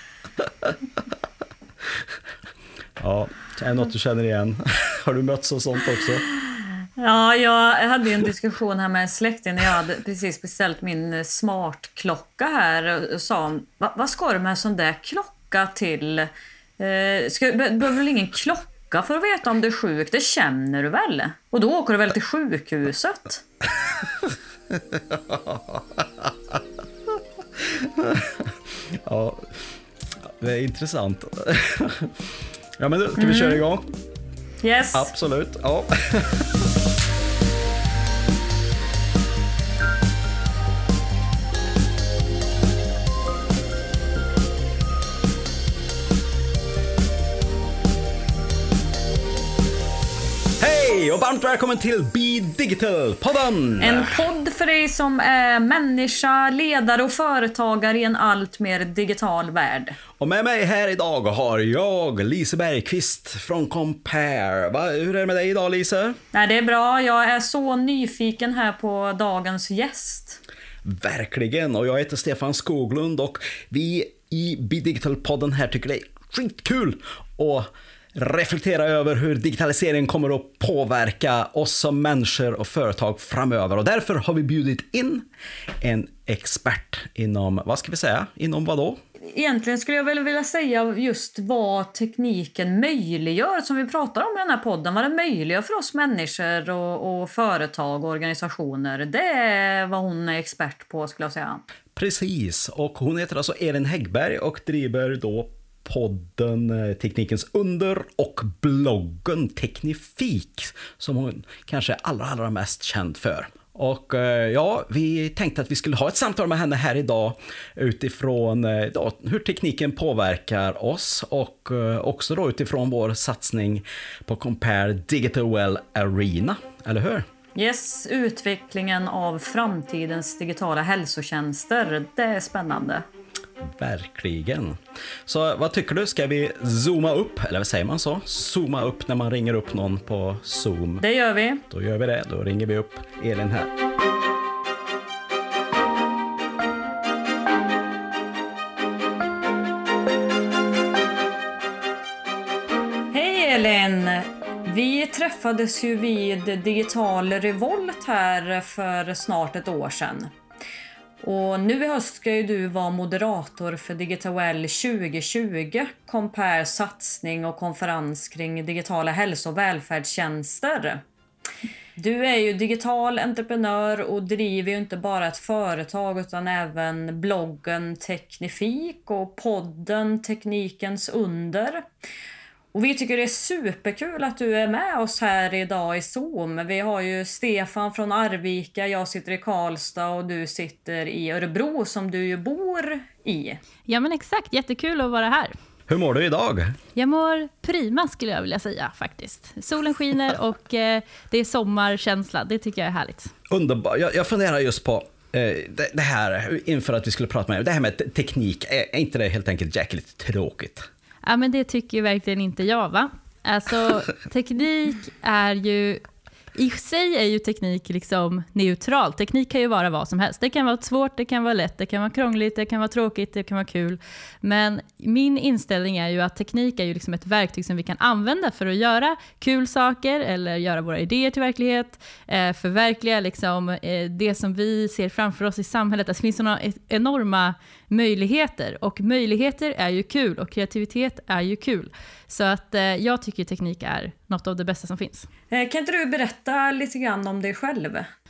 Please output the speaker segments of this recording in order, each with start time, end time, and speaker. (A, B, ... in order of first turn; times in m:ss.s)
0:00.4-0:00.7 A
0:03.0-0:06.3 A
0:07.0-0:23.4 B
0:24.9-0:26.6 A
0:27.6-0:29.6 A
0:30.4-0:33.9 A
0:33.2-0:33.6 B
0:34.6-0:35.1 B
0:34.9-0:36.4 A
0:50.6-0:54.2 A
0:53.8-1:00.0 B
1:00.2-1:06.2 A
1:06.3-1:10.4 B
1:10.8-1:25.2 A
1:25.8-1:29.0 A
1:29.3-1:41.6 B
1:42.0-2:07.2 A
2:07.5-2:13.0 B
2:13.8-2:21.0 A
2:21.0-2:21.6 B
2:21.7-2:23.7 A
2:33.1-2:40.3 B
2:41.2-2:51.0 B
2:52.0-3:01.9 B
3:02.7-3:13.6 B
3:13.8-3:15.5 C
3:15.9-3:16.8 A
3:16.9-3:23.3 C
3:23.5-3:30.9 A
3:31.2-3:36.0 C
3:36.5-4:05.3 C
4:05.5-4:08.1 B